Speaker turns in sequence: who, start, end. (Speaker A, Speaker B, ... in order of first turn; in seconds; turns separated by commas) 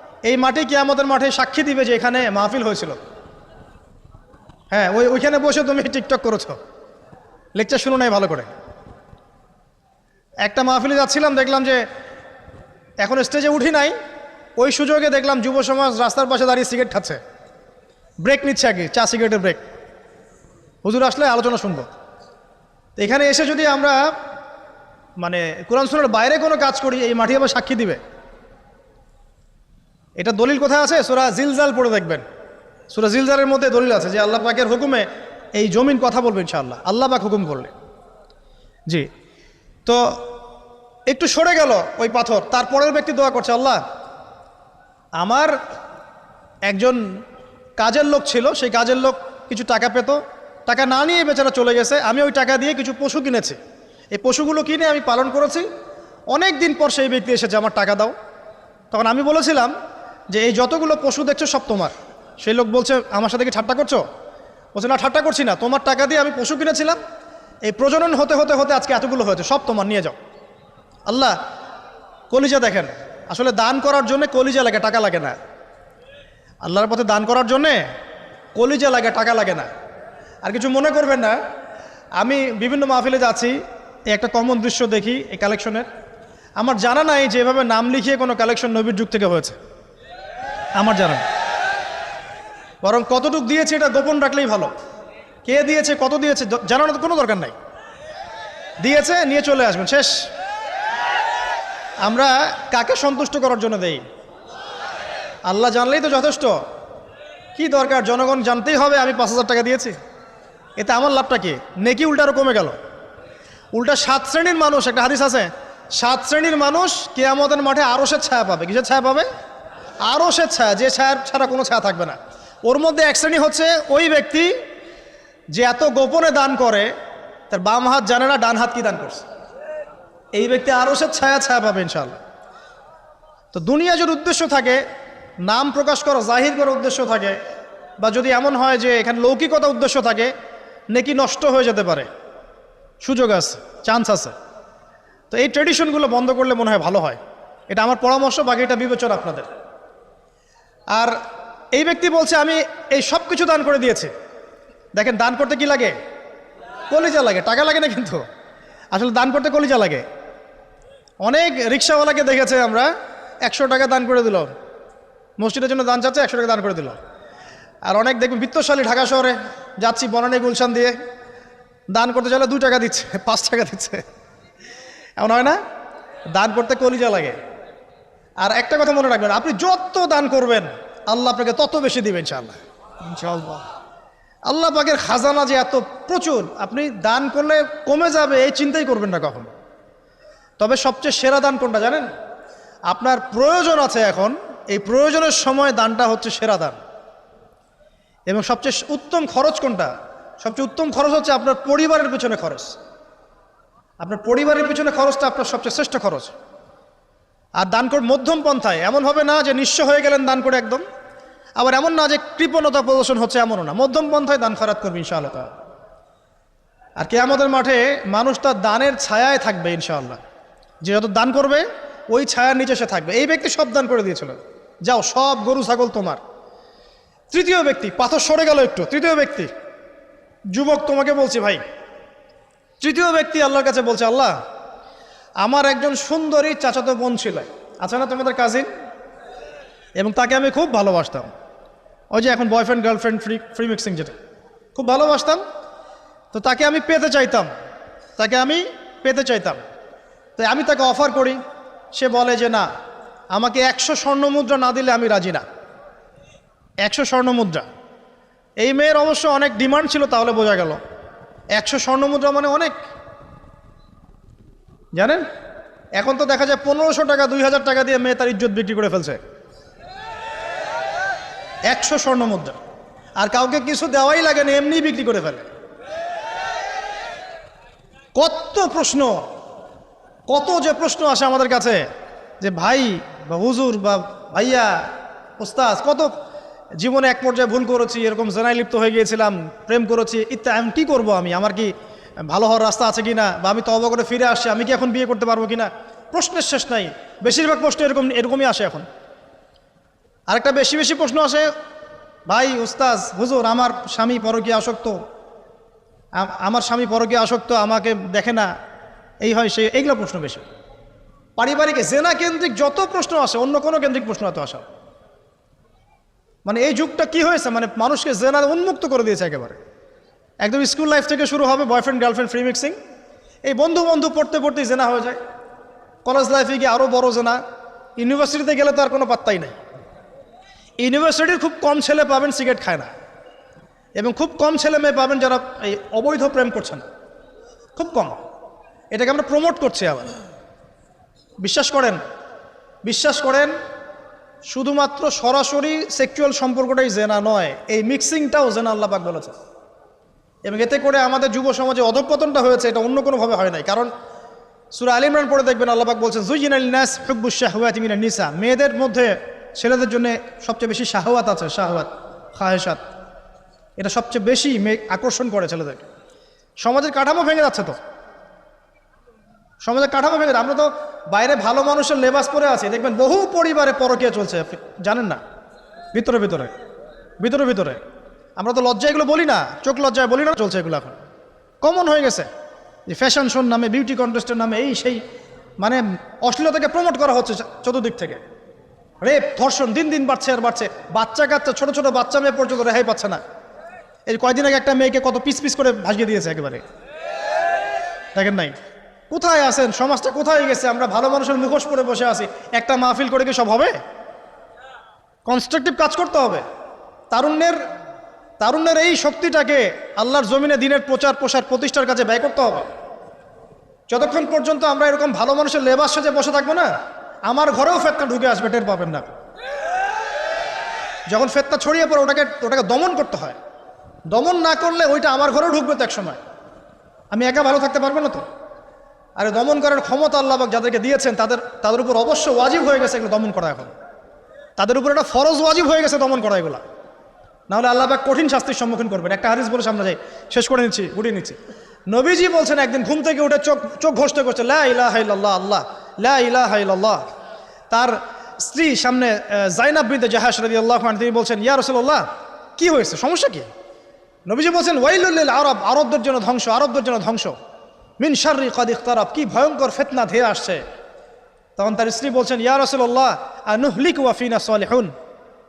Speaker A: 0.2-3.0, Speaker A: 4.7-6.6, Speaker A: 7.5-8.5, Speaker A: 10.4-11.8, Speaker A: 13.0-13.9, Speaker A: 14.6-17.2, Speaker A: 18.2-19.6, Speaker A: 20.8-21.9, Speaker A: 23.0-24.1, Speaker A: 25.2-28.0, Speaker A: 30.2-32.2, Speaker A: 32.9-37.7, Speaker A: 39.9-40.2, Speaker A: 41.1-43.8, Speaker A: 45.2-45.5, Speaker A: 46.7-47.0, Speaker A: 47.8-53.6, Speaker A: 54.1-55.6, Speaker A: 56.3-58.1, Speaker A: 58.9-59.7, Speaker A: 60.3-64.0, Speaker A: 64.8-67.0, Speaker A: 67.6-70.2, Speaker A: 71.1-71.3, Speaker A: 72.3-75.3, Speaker A: 76.6-77.8, Speaker A: 78.6-79.7, Speaker A: 80.4-81.4, Speaker A: 82.2-83.6, Speaker A: 84.1-85.9, Speaker A: 86.6-89.6, Speaker A: 90.8-91.2, Speaker A: 92.8-94.7, Speaker A: 95.4-97.5, Speaker A: 98.8-100.2, Speaker A: 102.0-104.0, Speaker A: 105.5-106.6, Speaker A: 107.5-109.9, Speaker A: 110.8-112.8, Speaker A: 113.7-119.3, Speaker A: 120.0-124.5, Speaker A: 125.5-126.9, Speaker A: 127.5-129.2, Speaker A: 130.3-132.2, Speaker A: 133.5-134.8, Speaker A: 135.4-137.4, Speaker A: 138.0-140.3, Speaker A: 140.9-142.1, Speaker A: 143.0-144.3, Speaker A: 145.3-147.2, Speaker A: 147.7-149.5, Speaker A: 151.7-154.1, Speaker A: 155.0-155.9, Speaker A: 156.9-158.2, Speaker A: 158.9-160.0, Speaker A: 161.2-162.9, Speaker A: 163.4-164.5, Speaker A: 165.4-167.0, Speaker A: 167.9-170.9, Speaker A: 171.9-174.0, Speaker A: 175.2-175.6, Speaker A: 176.3-177.4, Speaker A: 178.4-183.6, Speaker A: 184.5-189.5, Speaker A: 190.6-192.1, Speaker A: 192.9-196.8, Speaker A: 198.3-202.7, Speaker A: 204.0-206.3, Speaker A: 207.6-210.8, Speaker A: 211.6-215.5, Speaker A: 217.0-220.2, Speaker A: 220.8-226.2, Speaker A: 227.3-229.5, Speaker A: 230.5-231.6, Speaker A: 232.8-234.3, Speaker A: 235.4-238.7, Speaker A: 240.0-241.3, Speaker A: 242.1-244.2, Speaker A: 244.7-245.4, Speaker A: 246.3-247.5, Speaker A: 248.2-249.6, Speaker A: 250.4-251.4, Speaker A: 251.9-252.7, Speaker A: 253.3-255.4, Speaker A: 256.8-257.6, Speaker A: 258.6-260.8, Speaker A: 261.5-262.8, Speaker A: 264.9-265.2, Speaker A: 266.0-269.2, Speaker A: 271.7-272.6, Speaker A: 273.2-275.5, Speaker A: 278.1-279.2, Speaker A: 280.3-281.8, Speaker A: 282.4-284.7, Speaker A: 285.4-286.1, Speaker A: 286.8-291.7, Speaker A: 292.3-298.8, Speaker A: 300.3-301.5, Speaker A: 302.3-305.0, Speaker A: 306.1-308.5, Speaker A: 309.2-310.4, Speaker A: 311.4-314.6, Speaker A: 316.4-319.6, Speaker A: 320.4-322.8, Speaker A: 323.5-325.2, Speaker A: 326.0-327.4, Speaker A: 328.0-329.6, Speaker A: 330.8-332.9, Speaker A: 334.0-336.9, Speaker A: 337.8-338.2, Speaker A: 338.9-340.1, Speaker A: 341.4-342.0, Speaker A: 342.8-343.5, Speaker A: 344.5-349.3, Speaker A: 350.5-353.9, Speaker A: 354.7-362.8, Speaker A: 363.8-365.9, Speaker A: 366.6-367.8, Speaker A: 369.6-375.2, Speaker A: 375.9-376.5, Speaker A: 377.2-377.8, Speaker A: 378.4-381.0, Speaker A: 381.6-382.3, Speaker A: 382.9-385.0, Speaker A: 385.6-388.2, Speaker A: 389.0-393.2, Speaker A: 394.1-396.6, Speaker A: 398.1-398.5, Speaker A: 399.1-403.8, Speaker A: 405.2-406.4, Speaker A: 407.1-407.6, Speaker A: 408.4-412.7, Speaker A: 413.9-416.7, Speaker A: 417.3-419.1, Speaker A: 421.1-423.4, Speaker A: 424.1-426.2, Speaker A: 427.1-428.2, Speaker A: 429.2-433.7, Speaker A: 434.6-436.6, Speaker A: 437.5-441.4, Speaker A: 441.9-447.0, Speaker A: 447.7-452.1, Speaker A: 452.6-453.5, Speaker A: 454.3-457.4, Speaker A: 458.0-460.6, Speaker A: 461.6-464.9